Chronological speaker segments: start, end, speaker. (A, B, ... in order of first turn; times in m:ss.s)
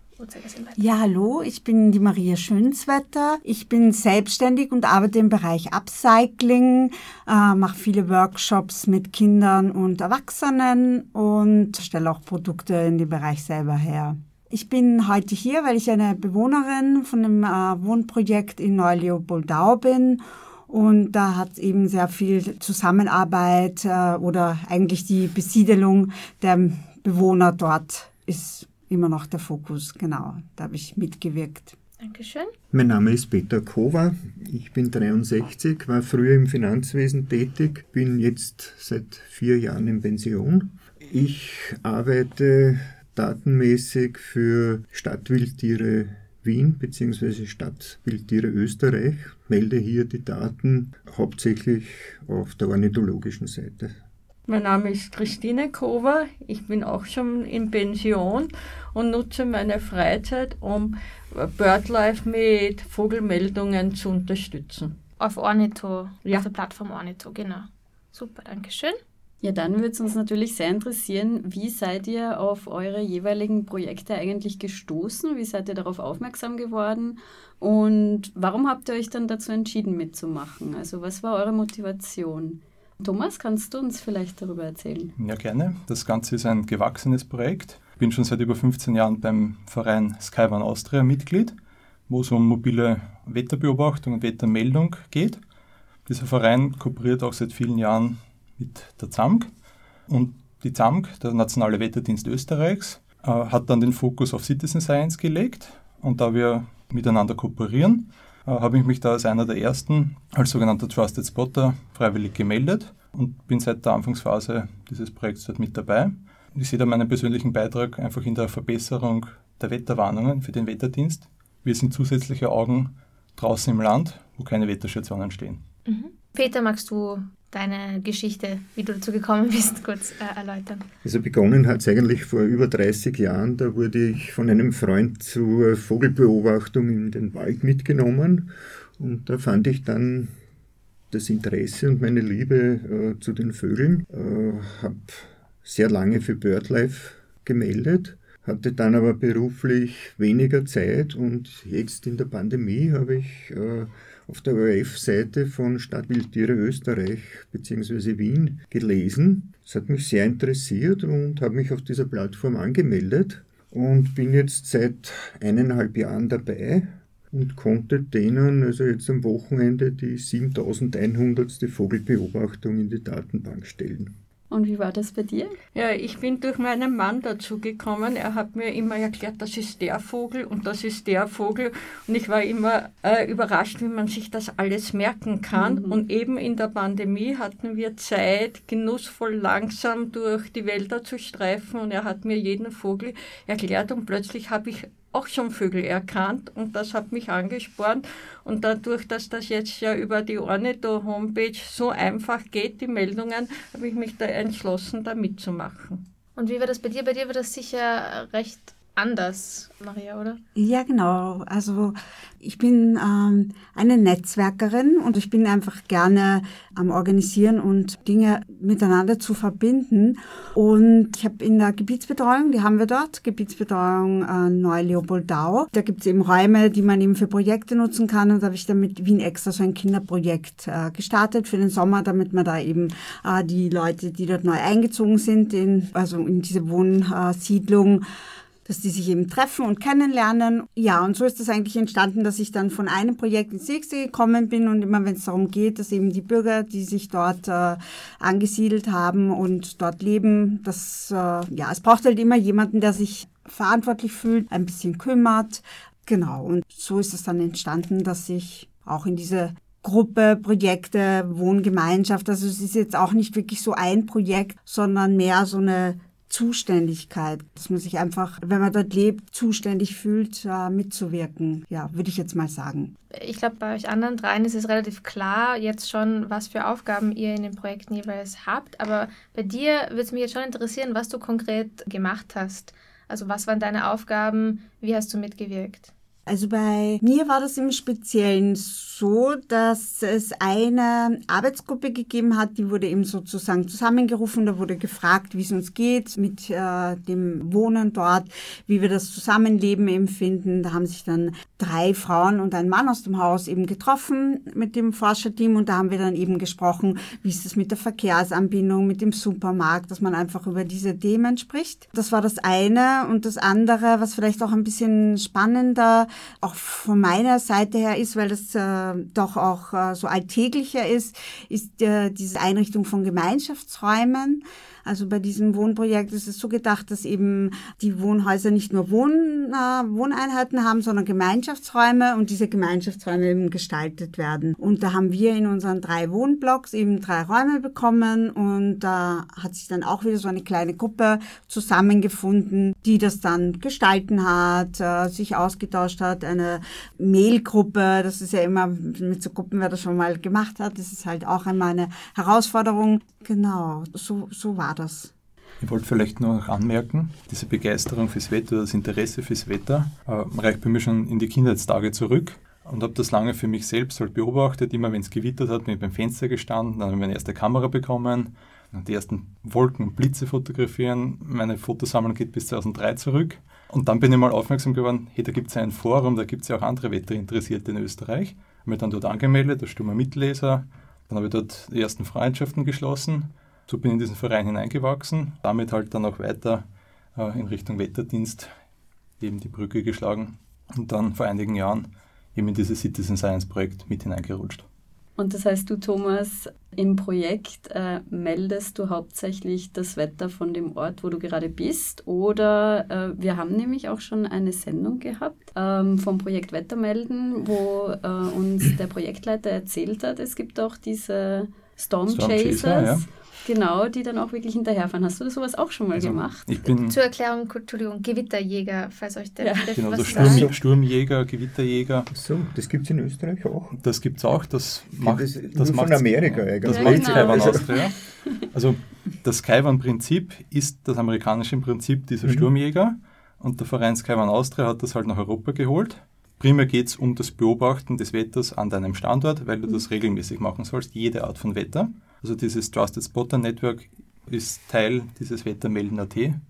0:00.2-0:00.8 A
0:00.8-0:31.7 B
0:32.0-0:32.5 A
0:32.7-0:54.0 C
0:54.5-1:04.9 D
1:05.2-1:09.0 A
1:09.4-1:25.1 E
1:25.2-1:31.5 F
1:32.1-1:35.4 F
1:36.1-1:39.5 F
1:40.1-2:05.6 F
2:05.8-2:10.9 A
2:11.0-2:20.3 C
2:21.1-2:54.1 C
2:54.5-2:55.6 E
2:55.7-3:26.0 D
3:05.5-3:06.0 E
3:26.4-3:30.4 A
3:30.6-3:58.0 B
3:58.6-4:32.9 B
4:33.1-4:45.9 A
4:46.3-5:55.1 B
5:55.6-6:26.6 F
6:27.2-6:28.5 F
6:29.2-6:34.6 F
6:35.2-6:56.5 E
6:52.1-6:53.0 F
6:55.9-6:57.0 F
6:56.9-7:00.5 A
6:59.4-6:59.7 E
6:59.7-7:02.1 F
7:00.1-7:00.6 C
7:02.1-7:03.8 C
7:03.8-7:26.4 F
7:04.9-7:07.7 C
7:06.6-7:07.9 E